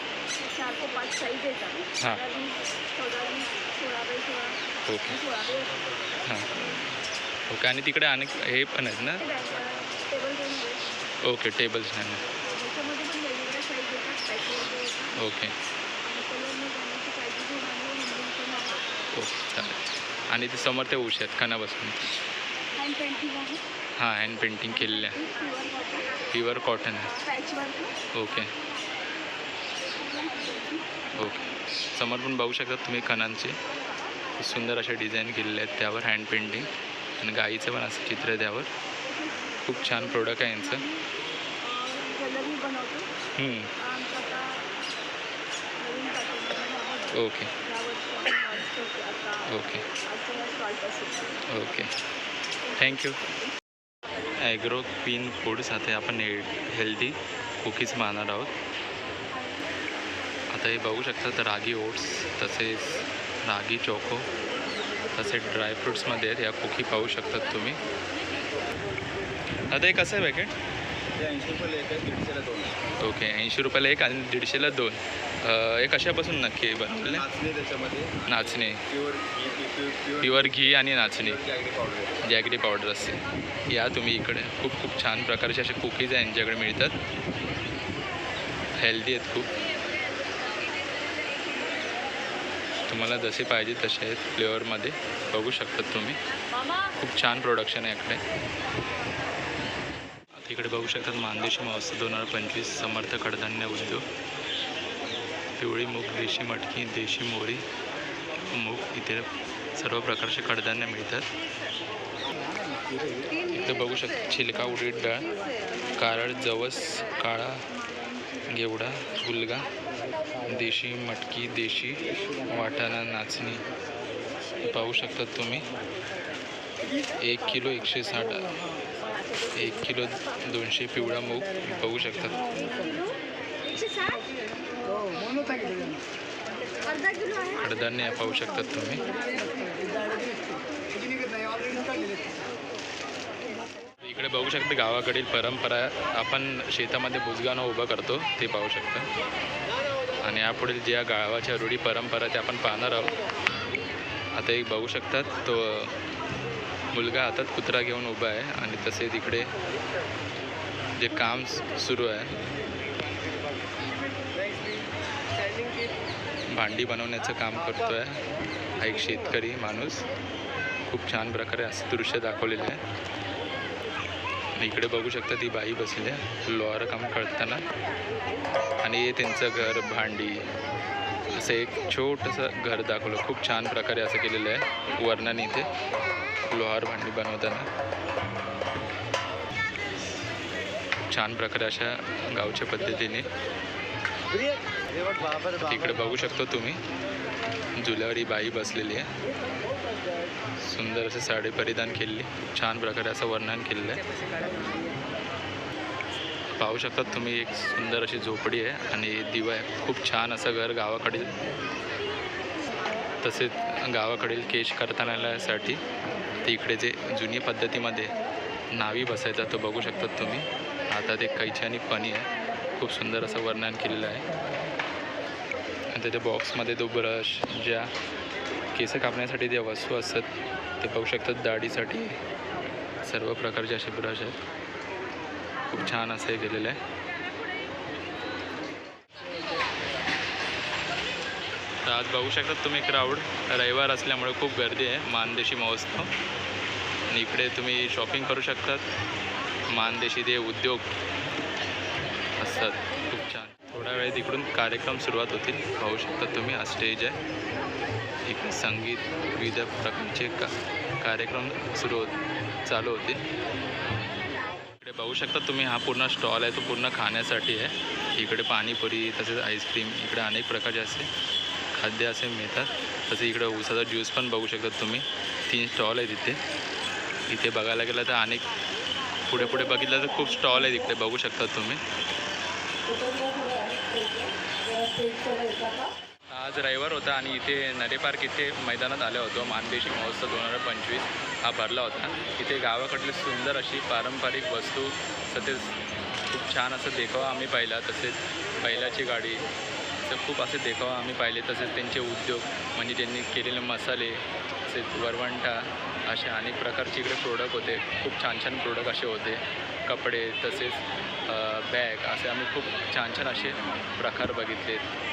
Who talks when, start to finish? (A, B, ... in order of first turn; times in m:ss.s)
0:00.4-0:05.9 A
0:04.9-0:05.2 B
0:06.3-0:06.7 B
0:07.5-0:09.2 B
0:09.2-0:10.9 A
0:11.2-0:12.2 B
0:12.5-0:15.2 A
0:15.2-0:15.5 B
0:16.0-0:18.9 A
0:19.1-0:22.0 B
0:22.8-0:23.6 A
0:24.0-0:25.2 B
0:24.8-0:26.3 A
0:26.3-0:27.1 B
0:27.2-0:28.0 A
0:28.1-0:28.5 B
0:29.9-0:31.0 A
0:31.2-0:33.6 B
0:34.4-0:38.7 B
0:39.1-0:41.0 A
0:39.6-0:40.8 B
0:41.6-0:43.1 A
0:43.4-0:43.7 B
0:43.8-0:44.6 A
0:45.8-0:51.4 A
0:47.1-0:47.5 B
0:49.5-0:49.8 B
0:51.5-0:51.9 B
0:52.7-0:53.3 A
0:52.8-0:53.2 B
0:54.4-0:58.5 B
1:00.5-1:04.3 B
1:05.1-1:07.8 B
1:09.7-1:10.5 B
1:11.2-1:12.7 C
1:13.0-1:17.3 B
1:17.4-1:17.8 C
1:18.3-1:18.8 B
1:19.0-1:20.1 C
1:20.2-1:21.4 B
1:22.2-1:27.0 B
1:28.8-1:29.5 B
1:32.9-1:36.2 B
1:37.0-1:38.2 B
1:40.4-1:44.0 B
1:45.6-1:47.6 B
1:48.5-1:51.2 B
1:53.5-1:55.3 B
1:56.0-1:57.6 B
1:58.5-1:59.7 B
2:00.4-2:03.6 B
2:04.6-2:05.7 B
2:07.2-2:08.6 B
2:09.5-2:12.4 B
2:12.5-2:15.9 A
2:17.0-2:17.5 A
2:17.6-2:19.0 B
2:19.2-2:20.4 A
2:21.6-2:22.2 A
2:24.0-2:29.1 B
2:30.2-2:33.1 B
2:34.4-2:35.9 B
2:36.9-2:39.5 B
2:41.0-2:42.4 B
2:46.5-2:48.2 B
2:48.8-2:50.1 B
2:50.9-2:52.8 B
2:54.6-2:57.6 B
2:58.8-3:00.4 B
3:01.3-3:05.7 B
3:06.5-3:07.7 B
3:11.1-3:13.3 B
3:15.5-3:16.8 B
3:17.8-3:19.1 B
3:20.6-3:24.0 B
3:26.6-3:31.3 B
3:33.2-3:35.8 B
3:36.4-3:38.1 B
3:38.7-3:44.2 B
3:45.9-3:47.9 B
3:48.7-3:50.3 B
3:50.8-3:52.2 B
3:53.0-3:54.4 B
3:55.7-3:56.8 B
4:01.8-4:06.1 B
4:07.1-4:08.8 B
4:09.7-4:10.9 B
4:12.4-4:17.2 B
4:18.3-4:22.1 B
4:22.7-4:23.2 B
4:24.8-4:31.1 B
4:31.7-4:36.4 B
4:37.3-4:38.5 B
4:39.3-4:41.8 B
4:42.9-4:45.9 A
4:46.3-4:55.8 B
4:56.3-4:59.4 B
5:00.0-5:14.9 B